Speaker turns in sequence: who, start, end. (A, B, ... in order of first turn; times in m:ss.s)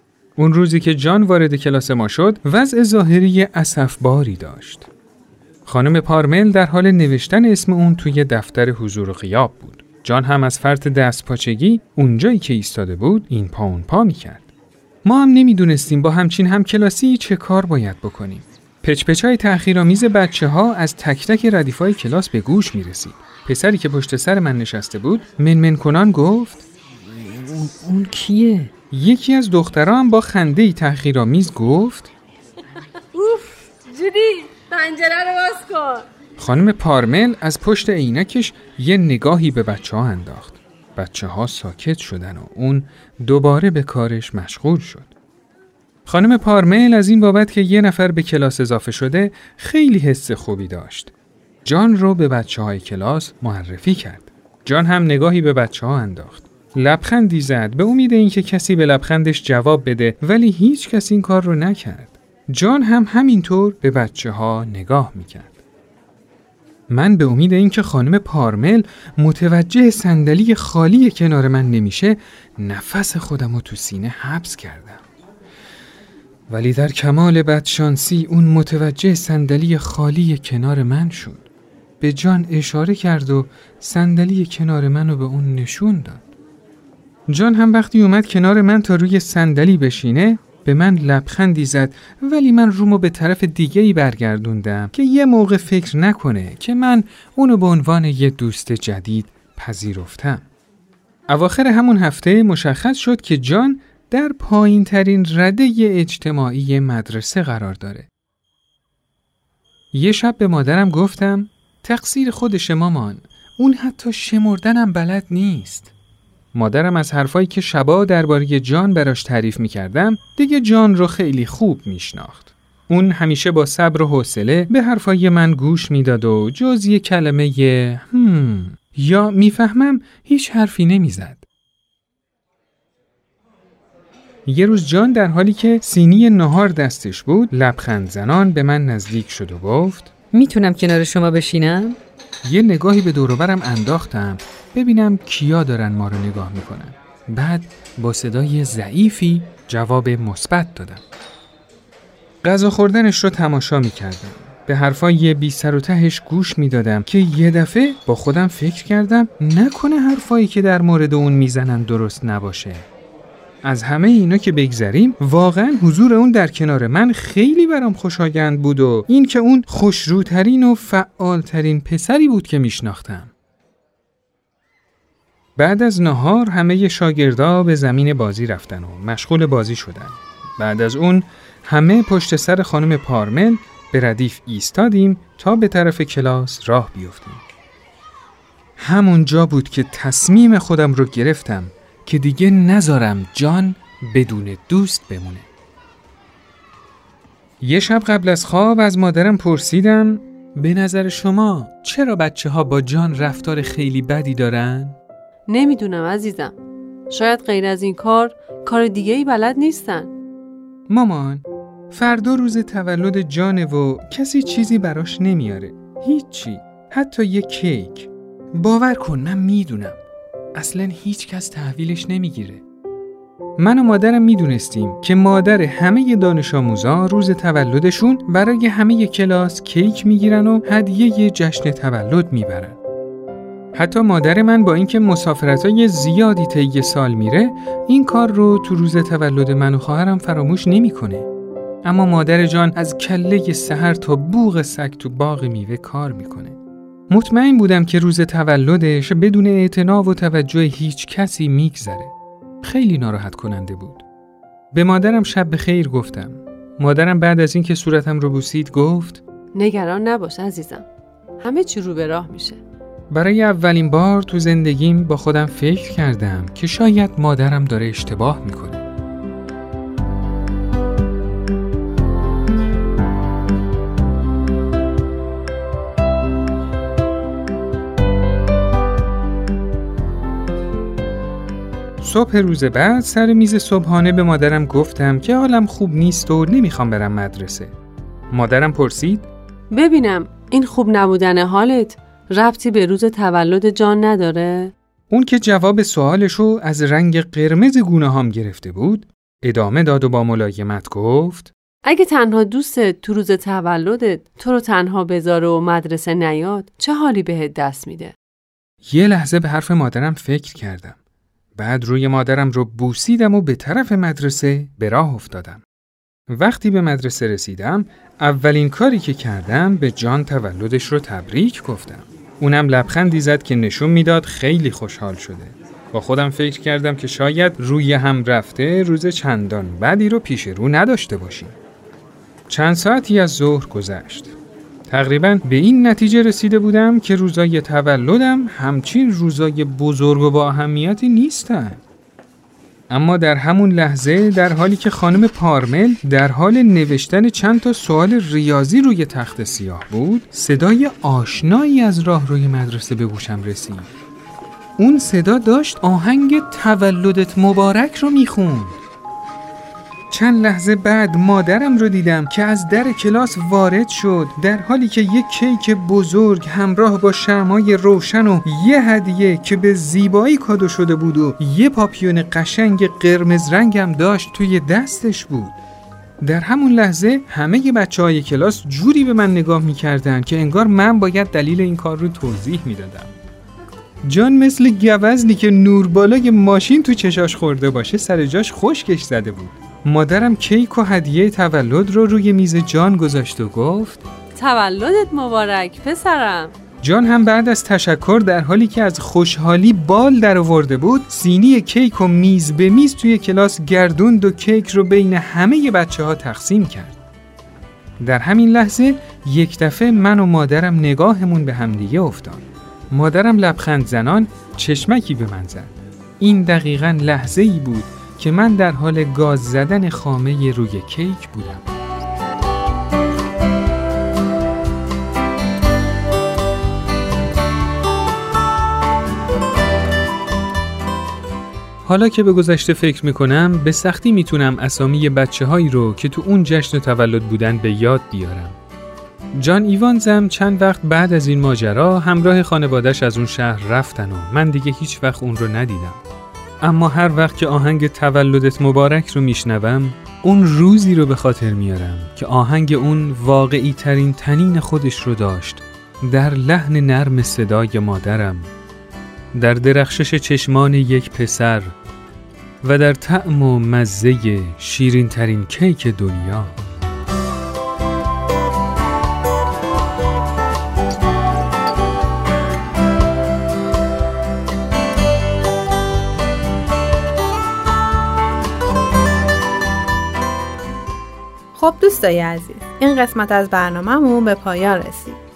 0:00.4-0:04.9 A
0:05.6-0:14.4 A
0:15.0-0:26.6 A
0:27.4-0:28.7 B
0:28.9-0:32.1 A
0:33.2-0:36.0 C
0:36.4-0:45.1 A
0:46.0-0:51.1 A
0:51.6-1:05.6 A
1:06.9-1:15.0 A
1:16.5-1:21.4 A
1:22.0-1:26.2 A
1:27.3-1:40.4 A
1:41.3-1:48.1 A
1:49.9-1:55.9 A
1:56.5-2:11.4 A
2:14.5-2:20.1 A
2:20.3-2:22.0 B
2:22.4-2:31.0 A
2:32.4-2:42.8 A
2:43.6-2:53.3 A
2:55.6-3:07.4 A
3:08.8-3:15.4 A
3:17.6-3:25.0 A
3:25.5-3:26.5 D
3:27.1-3:30.1 D
3:30.9-3:40.0 A
3:40.5-3:42.6 A
3:43.6-3:52.8 A
3:53.8-4:01.3 A
4:01.8-4:06.6 A
4:07.1-4:12.1 A
4:12.6-4:14.0 A
4:14.7-4:19.2 A
4:19.5-4:20.8 D
4:21.4-4:22.6 D
4:23.1-4:28.8 A
4:42.0-4:47.7 A
4:48.3-4:49.3 A
4:49.7-4:54.7 D
4:55.1-5:01.5 A
5:01.8-5:08.1 D
5:08.8-5:11.0 A
5:11.6-5:15.6 A
5:16.3-5:31.5 A
5:32.5-5:34.3 A
5:34.9-5:41.8 A
5:42.9-5:53.9 A
5:54.8-5:58.8 A
6:00.1-6:15.5 A
6:16.2-6:23.1 A
6:24.0-6:34.0 A
6:34.4-6:36.5 D
6:36.8-6:47.0 A
6:48.0-7:01.6 A
7:11.8-7:18.6 A
7:19.4-7:26.0 A
7:26.6-7:38.5 A
7:39.4-7:41.7 A
7:42.6-7:46.6 A
8:01.5-8:05.2 C